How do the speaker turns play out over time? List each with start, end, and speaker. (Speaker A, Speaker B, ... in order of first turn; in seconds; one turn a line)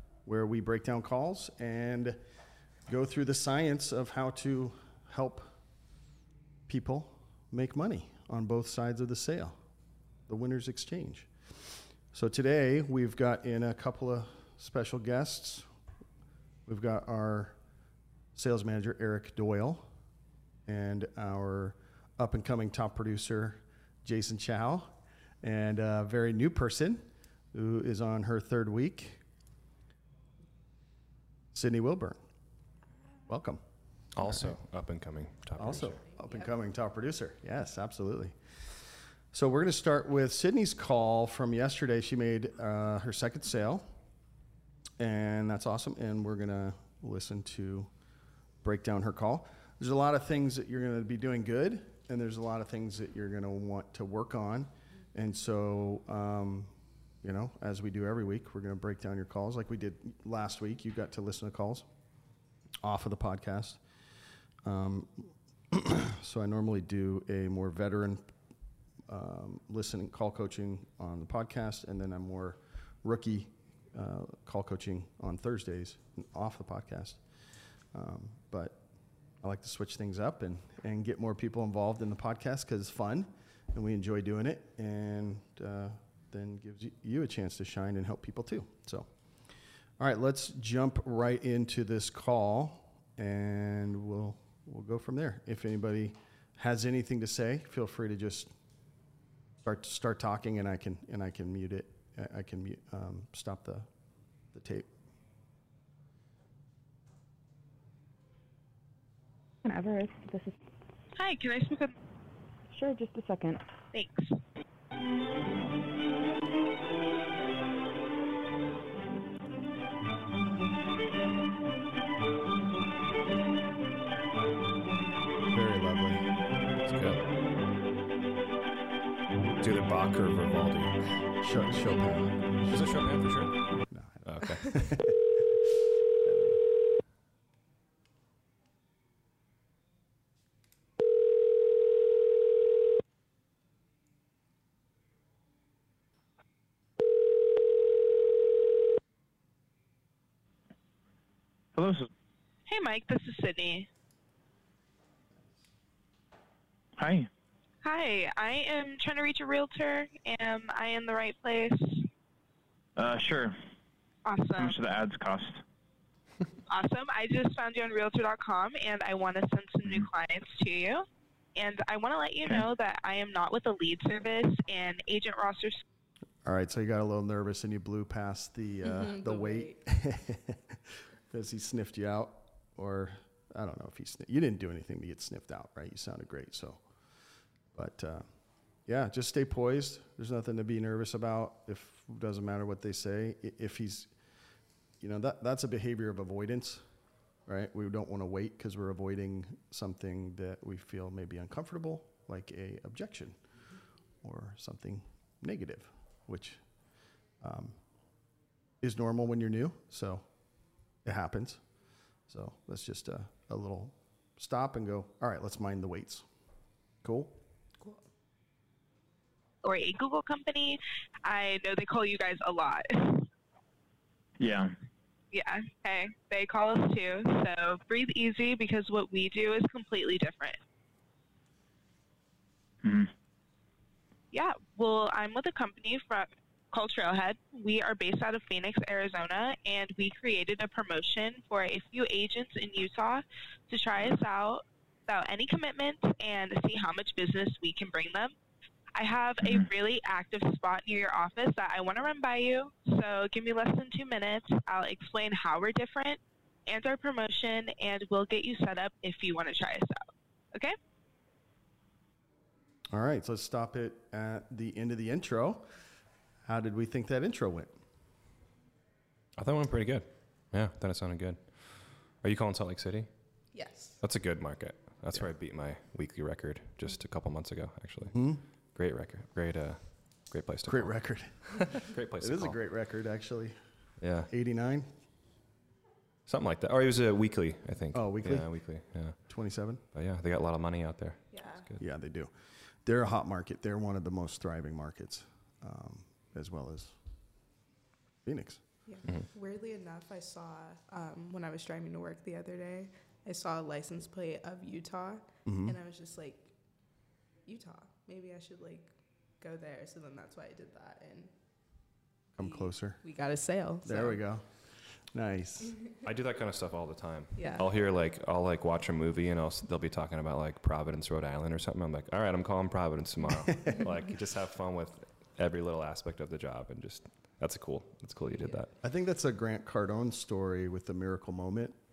Speaker A: 0.2-2.2
Speaker A: 2.9-5.5
Speaker A: 6.7-9.6
Speaker A: 10.3-15.7
Speaker A: 16.6-17.6
Speaker A: 18.3-19.9
Speaker A: 20.6-29.2
Speaker A: 31.5-32.2
Speaker A: 33.3-33.6
Speaker B: 34.1-36.0
Speaker A: 34.2-34.6
Speaker A: 35.6-38.8
Speaker A: 39.3-43.9
Speaker A: 45.0-47.9
Speaker A: 48.6-61.9
Speaker A: 62.8-63.8
Speaker A: 64.6-68.2
Speaker A: 69.0-77.2
Speaker A: 77.9-78.8
Speaker A: 79.4-89.1
Speaker A: 90.0-98.5
Speaker A: 99.6-103.9
Speaker A: 104.5-104.9
Speaker C: 109.6-110.6
Speaker D: 111.1-112.0
Speaker C: 112.7-113.7
Speaker D: 113.9-114.3
Speaker A: 125.5-126.3
Speaker B: 126.9-127.2
Speaker B: 129.6-131.2
Speaker A: 131.4-132.4
Speaker B: 132.7-135.0
Speaker A: 133.9-135.6
Speaker A: 136.2-136.7
Speaker E: 151.8-152.1
Speaker D: 152.7-153.9
Speaker E: 157.0-157.3
Speaker D: 157.8-162.1
Speaker E: 163.0-163.6
Speaker D: 164.2-164.7
Speaker E: 164.6-165.6
Speaker D: 166.7-171.0
Speaker D: 171.6-175.8
Speaker A: 176.4-186.9
Speaker F: 178.8-179.8
Speaker A: 187.7-188.3
Speaker A: 188.8-194.1
Speaker A: 195.0-196.8
Speaker A: 197.4-203.4
Speaker A: 204.2-206.6
Speaker A: 207.4-207.8
Speaker A: 208.8-210.3
Speaker A: 211.0-211.6
Speaker A: 212.3-216.2
Speaker A: 217.0-217.4
Speaker D: 219.6-223.3
Speaker E: 224.4-224.7
Speaker D: 225.3-230.6
Speaker E: 232.8-233.1
Speaker D: 234.3-248.3
Speaker D: 248.9-260.7
Speaker A: 262.9-265.7
Speaker A: 266.4-267.7
Speaker B: 269.4-273.4
Speaker F: 273.5-274.0
Speaker B: 274.0-281.2
Speaker A: 278.1-278.4
Speaker A: 280.6-283.6
Speaker B: 281.8-282.6
Speaker B: 284.0-284.3
Speaker A: 284.3-284.9
Speaker B: 286.3-289.4
Speaker A: 287.9-289.8
Speaker B: 289.9-291.8
Speaker F: 291.3-291.7
Speaker A: 291.8-292.3
Speaker A: 292.8-297.0
Speaker A: 298.2-299.0
Speaker F: 298.8-306.6
Speaker B: 299.0-299.3
Speaker A: 305.4-305.8
Speaker F: 307.4-311.3
Speaker A: 312.3-315.8
Speaker F: 312.4-314.2
Speaker B: 316.0-328.7
Speaker F: 317.4-317.7
Speaker A: 323.4-323.9
Speaker A: 328.8-331.8